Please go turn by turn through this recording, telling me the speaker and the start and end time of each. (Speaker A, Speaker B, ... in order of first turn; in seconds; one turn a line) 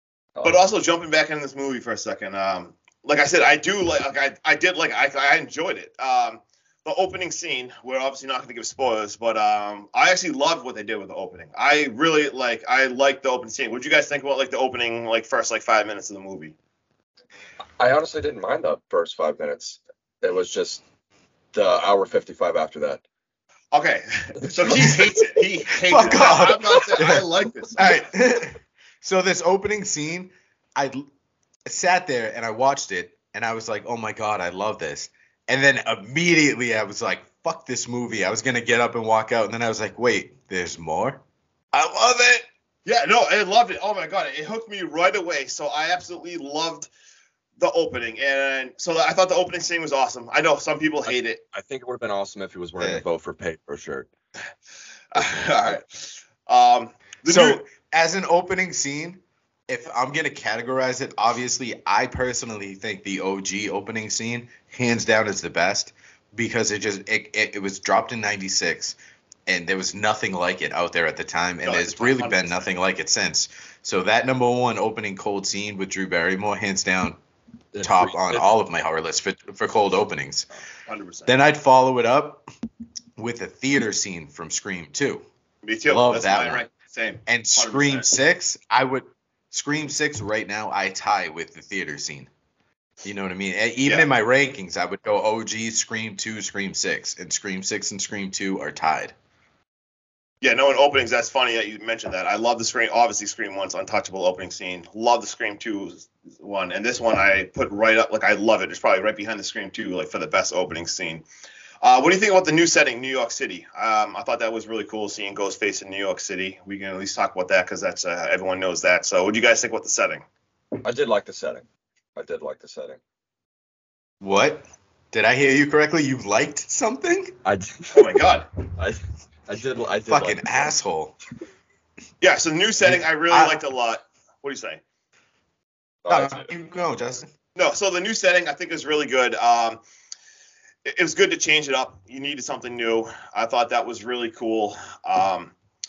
Speaker A: 0.4-16.5
Speaker B: 17.8-20.8
Speaker B: 21.5-23.0
Speaker A: 23.7-28.1
Speaker B: 24.4-25.1
Speaker C: 25.9-27.2
Speaker C: 27.8-31.1
Speaker C: 31.6-41.2
Speaker C: 41.7-42.4
Speaker A: 42.9-46.9
Speaker A: 47.6-51.4
Speaker B: 51.1-54.1
Speaker A: 55.1-57.6
Speaker B: 55.1-55.8
Speaker C: 57.2-77.2
Speaker A: 71.6-72.7
Speaker B: 77.7-78.5
Speaker C: 77.8-80.5
Speaker A: 80.9-81.3
Speaker C: 81.3-82.5
Speaker C: 83.2-85.2
Speaker A: 85.6-88.1
Speaker C: 85.9-86.6
Speaker C: 87.2-92.3
Speaker C: 93.0-99.1
Speaker A: 100.4-111.2
Speaker A: 111.8-120.2
Speaker B: 120.8-121.6
Speaker B: 122.2-123.0
Speaker C: 124.2-127.4
Speaker B: 127.4-128.1
Speaker A: 127.9-128.5
Speaker B: 128.8-130.7
Speaker C: 130.1-131.2
Speaker A: 132.2-134.8
Speaker C: 132.8-133.6
Speaker B: 136.0-136.5
Speaker C: 136.1-137.3
Speaker A: 137.6-139.8
Speaker A: 140.8-145.5